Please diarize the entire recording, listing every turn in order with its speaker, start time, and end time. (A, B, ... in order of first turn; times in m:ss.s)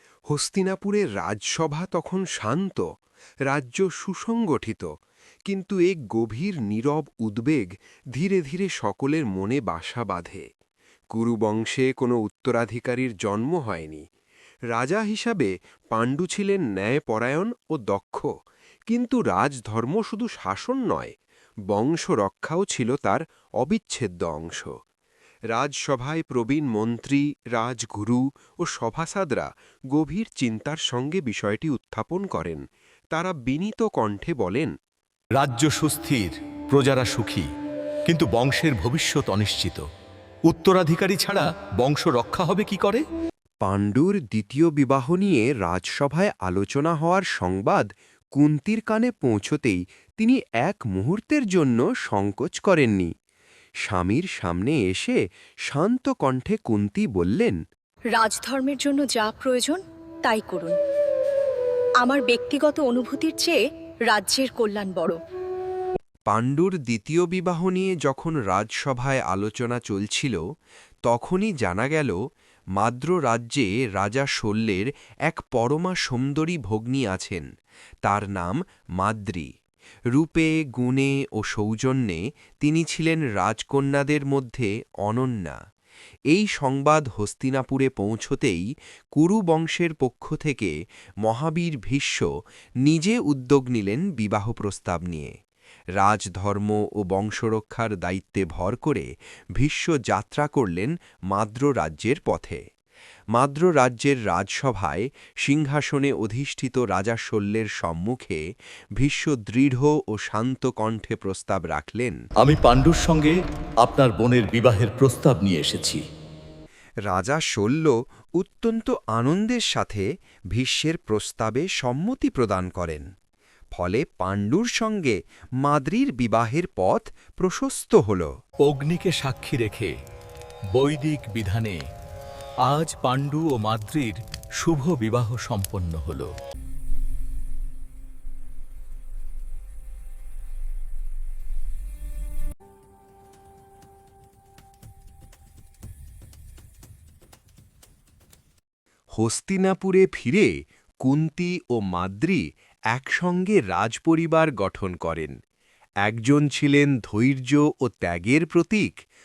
0:00.3-0:02.8 A
0:03.5-0:04.9 A
0:05.5-0:10.4 A
0:11.1-0:14.0 A
0:14.7-0:18.3 A
0:18.9-0:21.1 A
0:21.7-0:24.7 A
0:25.5-0:32.6 A
0:33.1-0:34.7 A
0:35.4-0:37.5 B
0:38.1-0:39.8 B
0:40.5-0:43.0 B
0:43.6-0:53.1 A
0:53.8-0:57.6 A
0:58.1-1:00.8 C
1:02.0-1:03.6 C
1:04.1-1:05.2 C
1:06.3-1:10.4 A
1:11.1-1:12.2 A
1:12.8-1:17.5 A
1:18.0-1:19.5 A
1:20.1-1:25.6 A
1:26.3-1:30.7 A
1:31.2-1:32.3 A
1:32.8-1:35.3 A
1:36.0-1:42.6 A
1:43.3-1:48.4 A
1:49.0-1:52.2 A
1:52.4-1:56.0 B
1:57.1-2:03.1 A
2:03.7-2:08.3 A
2:08.6-2:09.9 B
2:10.7-2:11.8 B
2:12.6-2:16.3 B
2:29.2-2:30.5 A
2:31.0-2:35.3 A
2:36.0-2:38.9 A